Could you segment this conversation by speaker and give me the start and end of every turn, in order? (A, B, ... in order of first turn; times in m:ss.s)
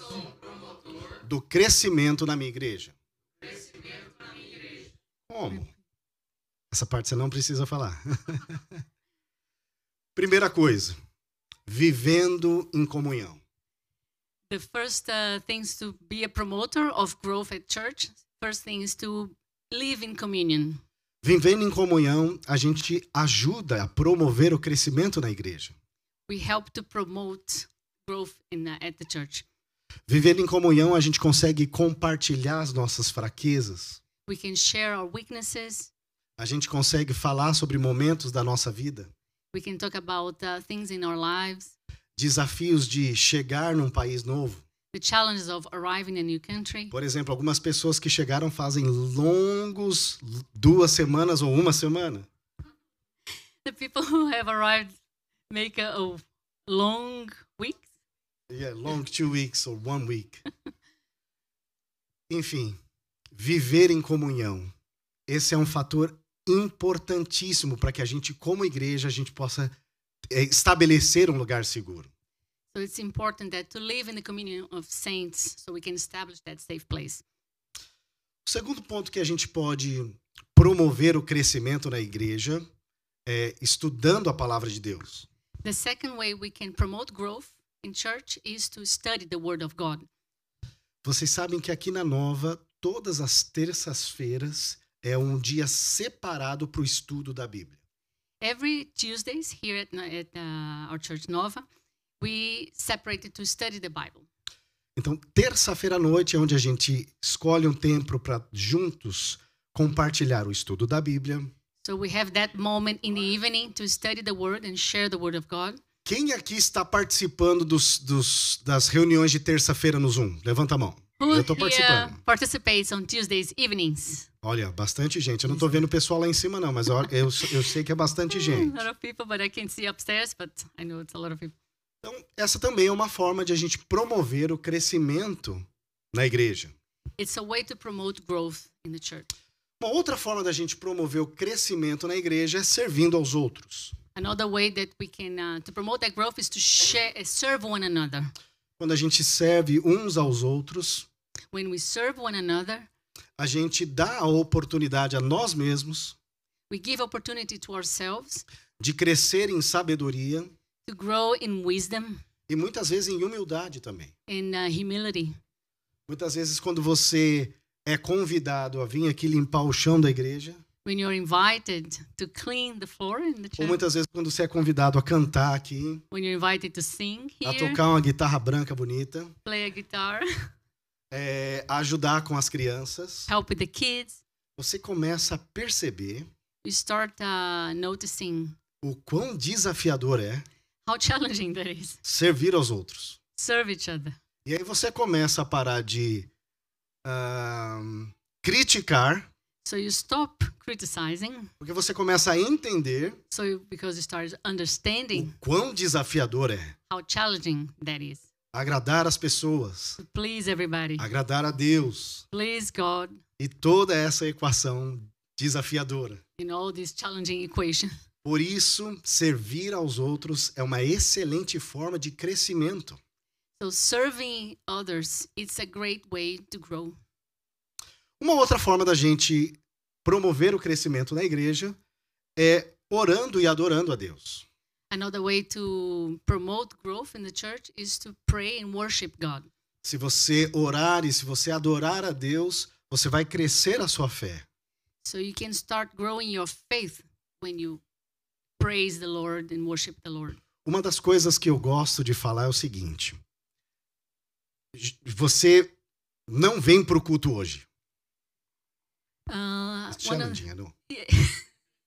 0:01.2-0:03.0 A
0:05.3-0:05.7 A
0:06.7-0:08.8 A
0:10.2-0:11.0 A
0:11.7-0:13.4 A
0:14.5-0:20.8 B
0:21.2-0:25.7 A
0:26.3-0:29.4 B
0:30.1-0:34.0 A
0:34.3-0:35.9 B
0:36.4-0:39.1 A
0:39.5-0:41.7 B
0:42.2-0:44.6 A
0:44.9-0:46.9 B
0:46.9-0:52.3 A
0:53.6-0:54.9 B
0:55.5-0:57.8 B
0:58.5-1:00.4 A
1:02.3-1:02.8 A
1:03.3-1:04.7 A
1:05.3-1:09.7 A
1:10.3-1:12.1 A
1:12.7-1:17.2 B
1:18.5-1:22.6 A
1:23.3-1:25.3 A
1:25.6-1:30.1 B
1:31.0-1:37.8 A
1:38.4-1:41.6 B
1:42.2-1:44.3 B
1:45.0-1:51.5 A
1:51.8-1:55.8 B
1:56.0-2:02.2 A
2:01.2-2:04.3 B
2:04.4-2:08.8 A
2:05.5-2:05.8 B
2:08.3-2:11.5 B
2:12.0-2:16.7 A
2:17.2-2:19.3 B
2:19.8-2:24.0 A
2:24.2-2:28.3 B
2:28.8-2:31.1 A
2:31.5-2:32.9 B
2:33.4-2:36.2 A
2:36.7-2:38.4 B
2:38.8-2:40.5 A
2:40.8-2:42.2 B
2:42.5-2:44.1 A
2:44.3-2:45.4 B
2:46.1-2:50.6 A
2:50.8-2:53.8 B
2:53.6-2:56.0 A
2:56.1-2:57.8 B
2:57.4-2:59.3 A
2:59.4-3:00.3 B
3:01.1-3:03.3 A
3:03.3-3:04.2 B
3:04.6-3:06.3 A
3:06.6-3:08.6 B
3:08.8-3:10.5 A
3:10.9-3:12.0 B
3:12.0-3:13.2 A
3:13.4-3:14.2 B
3:14.4-3:16.3 A
3:17.0-3:19.3 A
3:19.6-3:21.5 B
3:21.6-3:23.2 A
3:23.3-3:25.3 B
3:25.1-3:26.8 A
3:26.9-3:28.3 B
3:28.5-3:30.0 A
3:30.0-3:31.1 B
3:31.0-3:32.2 A
3:32.3-3:33.2 B
3:33.4-3:36.2 A
3:36.4-3:37.9 B
3:38.2-3:43.0 A
3:43.6-3:47.0 B
3:48.2-3:51.8 A
3:52.4-3:54.5 A
3:54.9-3:59.5 B
3:59.8-4:04.5 A
4:05.0-4:07.8 B
4:08.6-4:10.4 B
4:10.6-4:13.2 A
4:14.7-4:15.7 A
4:16.3-4:17.7 A
4:19.3-4:21.4 B
4:19.9-4:20.7 A